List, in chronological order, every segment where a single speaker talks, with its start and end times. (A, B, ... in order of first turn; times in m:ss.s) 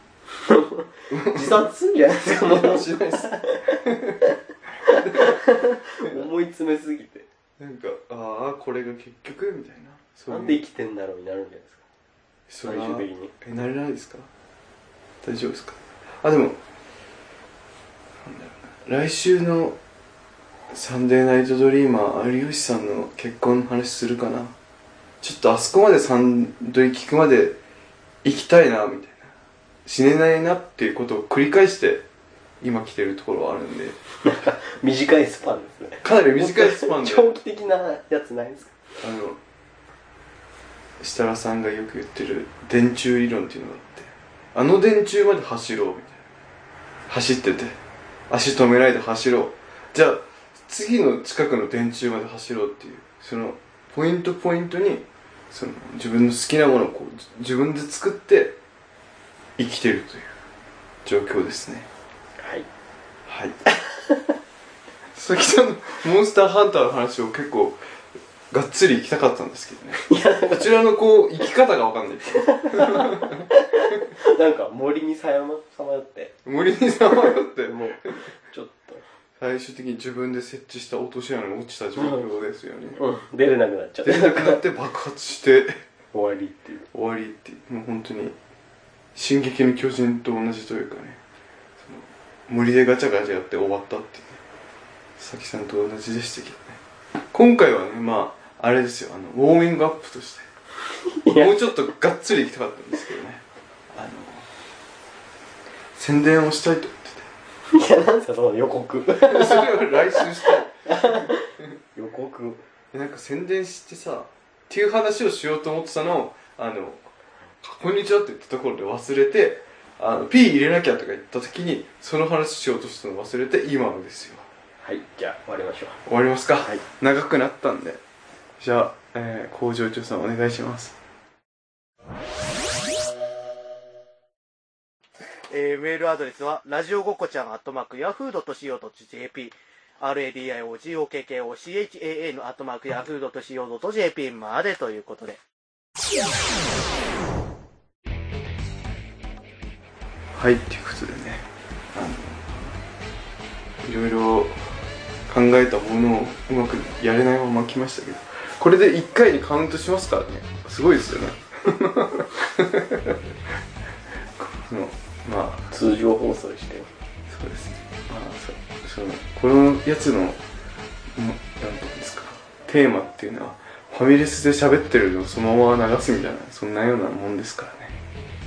0:00.4-0:07.2 A
0:01.1-0:01.6 B
0:02.2-0:03.3 B
0:03.8-0:04.1 B
0:04.9-0:05.3 B
0:07.6-0:10.6 B
0:10.3-0:11.8 A
0:12.5-0:14.3 B
0:12.6-0:13.3 A
0:15.2-0:16.6 B
0:18.2-0:19.8 B
0:20.7-0:24.5 B
0:25.2-0:27.6 B
0:28.2-0:29.3 B
0:29.8-0:32.0 B
0:32.6-0:34.0 B
0:34.2-0:38.7 A
0:36.0-0:37.3 B
0:39.0-0:39.4 B
0:41.0-0:46.2 B
0:47.1-0:47.8 B
0:48.3-0:58.6 B
0:59.6-1:00.3 B
1:01.0-1:01.9 B
1:02.4-1:02.7 A
1:03.3-1:03.6 B
1:05.1-1:07.8 B
1:08.5-1:13.4 B
1:10.0-1:10.7 A
1:12.5-1:16.3 A
1:16.4-1:18.2 B
1:17.2-1:19.0 A
1:19.4-1:23.0 B
1:22.0-1:22.2 A
1:23.0-1:24.6 A
1:24.0-1:25.8 B
1:26.1-1:26.9 A
1:26.9-1:28.3 B
1:29.2-1:31.2 B
1:31.8-1:34.4 B
1:35.2-1:36.8 B
1:37.3-1:40.4 B
1:41.1-1:41.8 A
1:41.4-1:44.5 B
1:45.9-1:47.3 B
1:47.7-1:52.6 A
1:49.2-1:51.3 B
1:52.9-1:57.0 B
1:57.6-2:04.4 B
2:04.8-2:06.0 A
2:06.0-2:08.0 B
2:08.6-2:10.9 B
2:15.4-2:25.4 C
2:30.3-2:32.7 B
2:33.8-2:34.6 B
2:35.3-2:43.2 B
2:44.3-2:45.7 B
2:45.7-2:46.9 A
2:47.3-2:50.4 B
2:51.2-2:58.0 B